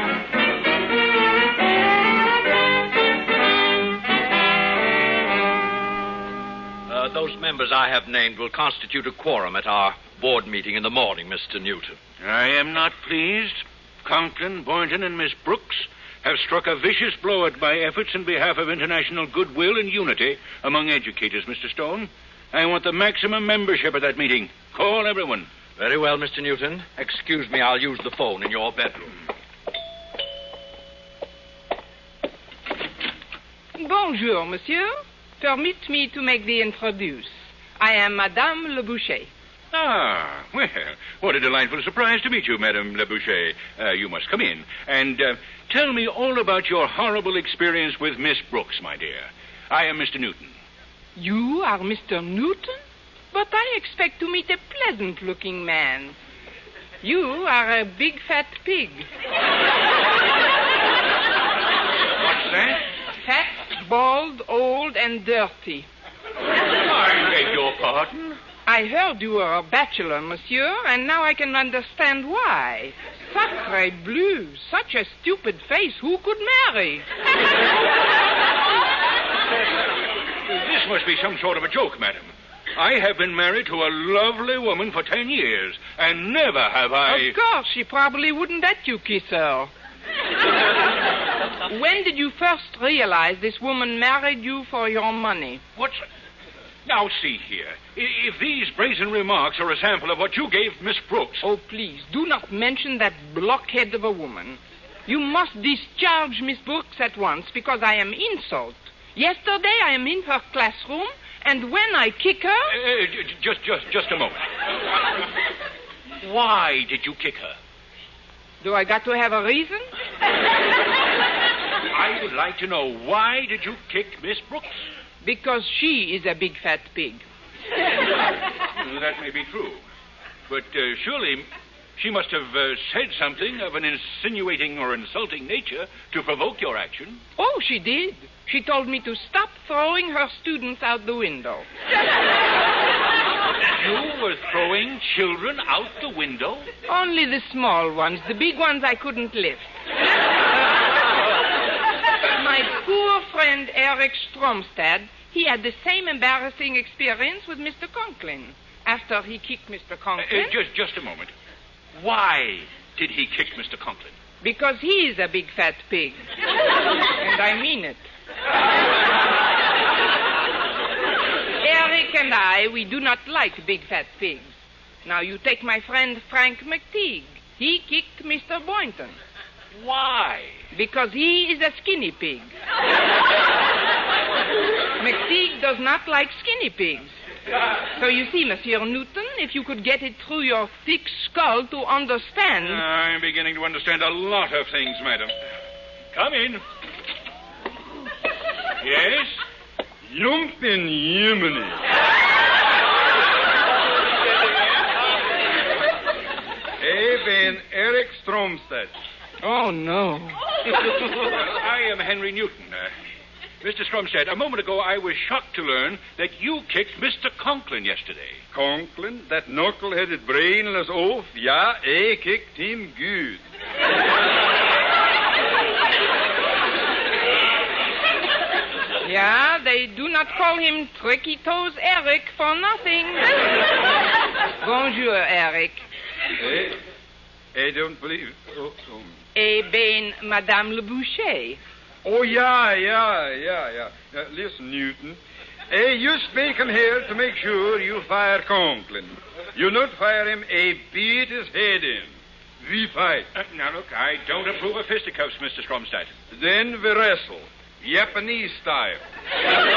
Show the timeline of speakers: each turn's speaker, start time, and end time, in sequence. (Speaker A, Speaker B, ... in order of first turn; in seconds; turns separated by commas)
Speaker A: 6.9-12.0, Speaker B: 12.2-25.5, Speaker A: 25.8-29.1, Speaker C: 33.8-39.3, Speaker B: 39.7-50.6, Speaker C: 51.1-52.8, Speaker C: 53.3-56.2, Speaker C: 57.0-59.1, Speaker B: 62.2-62.9, Speaker C: 63.2-65.9, Speaker B: 66.8-68.4, Speaker C: 68.7-77.0, Speaker B: 80.5-87.3, Speaker C: 87.0-89.7, Speaker C: 91.7-95.6, Speaker B: 95.8-96.1, Speaker B: 96.8-101.4, Speaker C: 101.4-112.7, Speaker B: 112.7-114.5, Speaker B: 116.2-117.6, Speaker C: 118.6-119.9, Speaker B: 121.9-124.8, Speaker C: 125.2-127.2, Speaker B: 128.7-129.8, Speaker B: 130.5-137.2, Speaker C: 137.4-141.7, Speaker B: 143.8-146.7, Speaker C: 146.9-149.7, Speaker C: 152.3-160.6, Speaker B: 160.2-161.3, Speaker B: 161.9-164.1, Speaker C: 164.4-166.2, Speaker C: 167.2-168.0, Speaker C: 171.6-174.5, Speaker C: 175.1-179.2, Speaker B: 179.7-180.6, Speaker C: 180.7-182.5, Speaker C: 185.0-187.1, Speaker C: 187.9-192.8, Speaker B: 192.6-195.3, Speaker B: 196.1-196.6, Speaker B: 198.8-199.4, Speaker D: 200.1-201.8, Speaker D: 206.8-208.9, Speaker C: 209.4-210.4, Speaker B: 211.2-212.9, Speaker B: 213.6-218.4, Speaker D: 218.5-223.4, Speaker C: 229.0-233.3, Speaker C: 234.6-235.8, Speaker D: 236.4-236.8, Speaker D: 237.5-239.1, Speaker C: 239.3-241.6, Speaker D: 242.0-245.2, Speaker D: 245.7-253.3, Speaker B: 253.3-256.1, Speaker D: 256.3-259.0